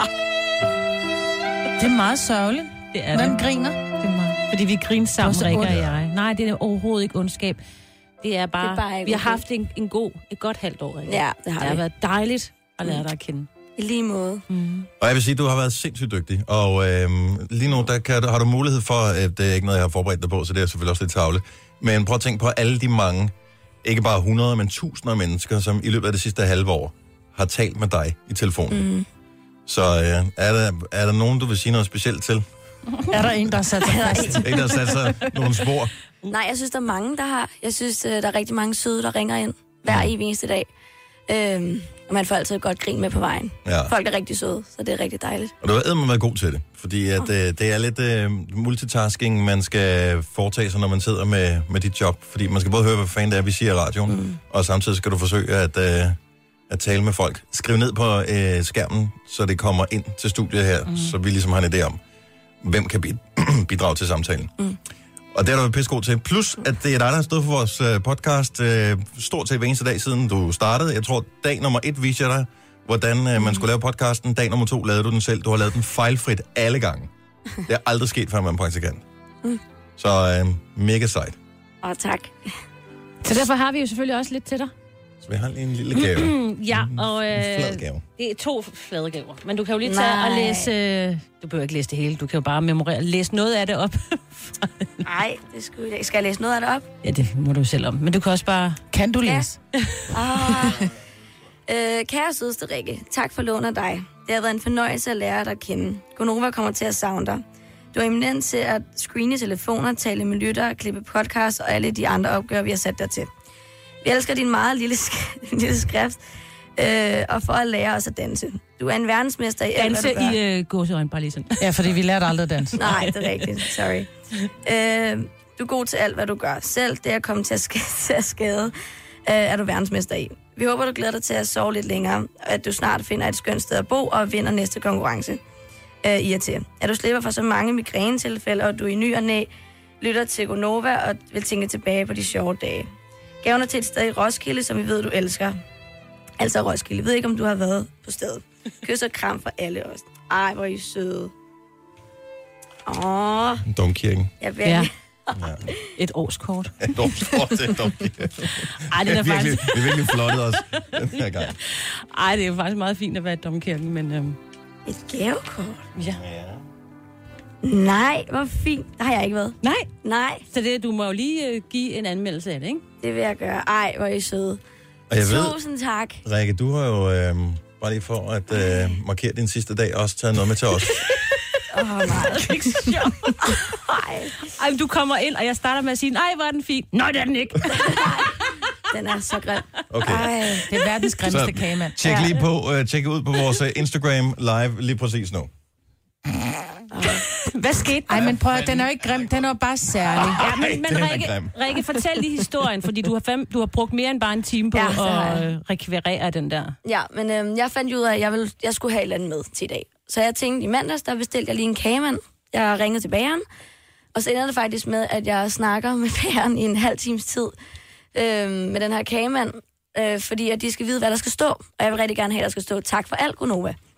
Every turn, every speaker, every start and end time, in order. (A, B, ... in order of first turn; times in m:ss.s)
0:01.8-0:03.9 A
0:02.9-0:07.6 B
0:05.2-0:05.7 A
0:05.6-0:06.0 C
0:08.2-0:13.5 B
0:08.6-0:09.4 D
0:11.0-0:11.8 D
0:13.8-0:14.4 D
0:14.5-0:14.9 B
0:15.0-0:28.9 C
0:28.7-0:29.0 D
0:29.6-0:32.4 C
0:33.1-0:34.8 A
0:34.1-0:34.5 D
0:34.1-0:35.9 C
0:36.2-0:40.7 D
0:39.8-0:40.1 C
0:41.3-0:45.5 D
0:43.6-0:43.9 C
0:45.6-0:56.2 C
0:54.1-0:54.4 D
0:56.7-1:02.0 C
1:02.6-1:04.5 C
1:05.3-1:17.1 C
1:13.4-1:13.6 D
1:17.6-1:19.0 C
1:20.0-1:21.4 C
1:21.8-1:22.5 D
1:23.2-1:24.7 B
1:25.2-1:28.0 C
1:25.9-1:35.0 B
1:29.8-1:30.7 D
1:35.0-1:36.9 D
1:37.0-1:38.8 B
1:38.9-1:39.6 A
1:40.1-1:40.9 D
1:41.7-1:53.3 D
1:54.0-1:56.2 D
1:56.8-2:00.4 D
1:59.7-2:01.7 B
2:01.6-2:02.8 A
2:02.8-2:04.1 D
2:02.8-2:03.4 B
2:04.6-2:08.7 D
2:09.2-2:15.4 D
2:16.0-2:19.5 D
2:20.0-2:22.9 D
2:23.4-2:25.6 D
2:26.4-2:31.3 D
2:32.8-2:33.6 D
2:33.6-2:34.3 C
2:34.4-2:35.7 D
2:34.6-2:34.9 B
2:35.4-2:35.6 C
2:36.0-2:37.1 B
2:36.8-2:41.6 C
2:38.9-2:40.8 B
2:41.5-2:44.4 B
2:44.9-2:45.8 D
2:46.1-2:46.6 C
2:47.6-2:50.4 D
2:49.6-2:49.9 B
2:50.5-2:52.8 B
2:53.0-2:54.6 D
2:55.1-2:55.6 C
2:55.2-2:56.2 D
2:56.2-3:01.1 C
3:01.7-3:04.4 D
3:02.2-3:03.6 B
3:04.4-3:08.1 B
3:07.7-3:10.7 D
3:09.9-3:10.4 C
3:10.7-3:12.0 A
3:11.2-3:15.5 C
3:12.0-3:12.3 D
3:16.9-3:17.3 D
3:17.3-3:18.4 B
3:18.0-3:20.4 A
3:18.6-3:18.8 C
3:20.1-3:21.5 C
3:20.3-3:26.7 B
3:24.7-3:25.5 D
3:26.8-3:33.4 D
3:34.1-3:37.5 D
3:38.1-3:43.8 D